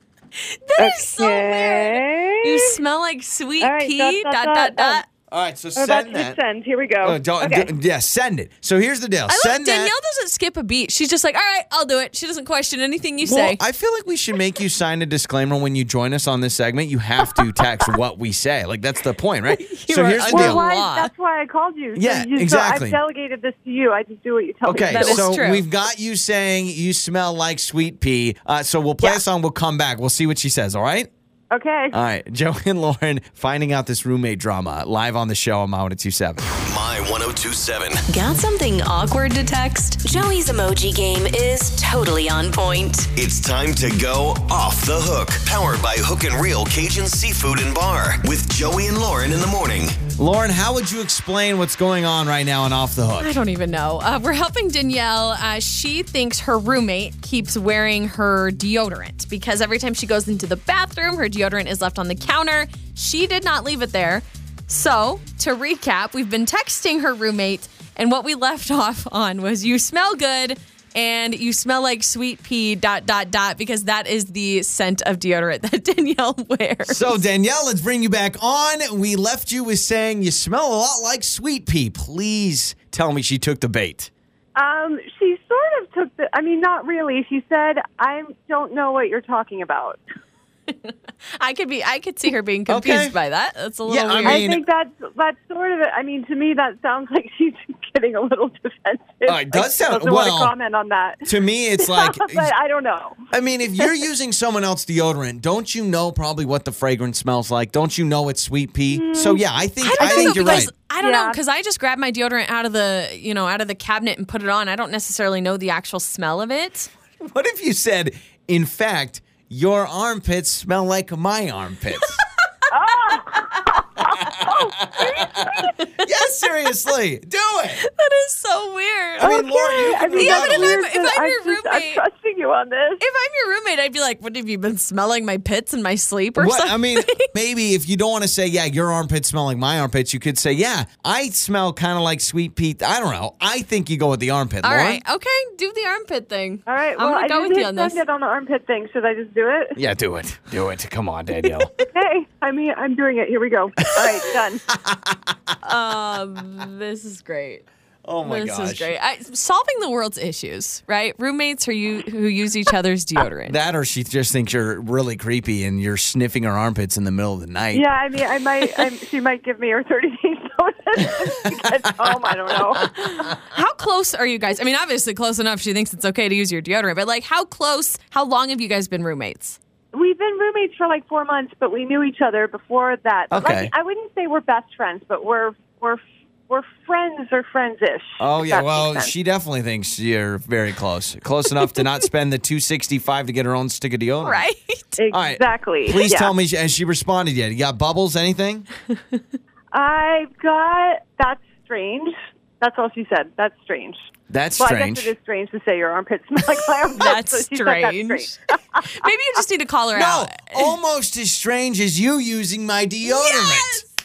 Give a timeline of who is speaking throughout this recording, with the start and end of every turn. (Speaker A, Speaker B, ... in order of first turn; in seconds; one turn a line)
Speaker A: 0.6-5.1
Speaker B: 0.8-2.5
Speaker B: 3.6-5.0
Speaker C: 5.3-6.4
Speaker B: 5.7-7.7
Speaker C: 7.0-9.9
Speaker A: 9.3-13.6
Speaker C: 13.2-20.6
Speaker A: 19.5-21.1
Speaker B: 20.3-25.3
Speaker C: 21.9-23.0
Speaker C: 24.6-31.1
Speaker A: 24.8-25.6
Speaker B: 31.5-32.0
Speaker C: 31.9-36.5
Speaker D: 36.6-38.0
Speaker E: 38.1-43.1
Speaker D: 43.1-49.9
Speaker C: 50.2-53.3
Speaker A: 53.2-77.2
Speaker C: 76.8-84.1
Speaker B: 84.5-90.0
Speaker A: 90.7-94.5
Speaker C: 92.7-93.2
Speaker C: 93.8-94.6
Speaker B: 94.2-103.2
Speaker C: 99.2-100.5
Speaker C: 101.2-102.5
Speaker C: 103.3-110.7
Speaker B: 108.9-109.4
Speaker A: 109.8-116.9
Speaker B: 110.0-111.4
Speaker C: 117.2-122.2
Speaker B: 122.7-125.7
Speaker C: 124.3-127.8
Speaker A: 127.8-129.4
Speaker C: 129.2-130.8
Speaker B: 129.2-133.0
Speaker A: 130.1-132.0
Speaker A: 133.0-137.2
Speaker C: 136.4-145.0
Speaker A: 144.6-148.0
Speaker B: 146.7-149.8
Speaker C: 149.8-151.7
Speaker A: 151.4-151.8
Speaker B: 151.9-154.6
Speaker C: 154.7-155.3
Speaker A: 155.6-157.6
Speaker C: 158.0-158.9
Speaker A: 158.2-163.6
Speaker C: 163.5-167.9
Speaker B: 167.7-173.3
Speaker A: 173.0-179.6
Speaker B: 179.9-189.1
Speaker C: 183.3-183.7
Speaker C: 188.2-194.4
Speaker A: 194.2-195.0
Speaker B: 195.0-196.3
Speaker C: 195.1-198.7
Speaker B: 199.7-204.0
Speaker C: 204.3-205.1
Speaker B: 204.6-209.1
Speaker A: 206.9-210.8
Speaker C: 209.9-213.8
Speaker A: 213.0-213.9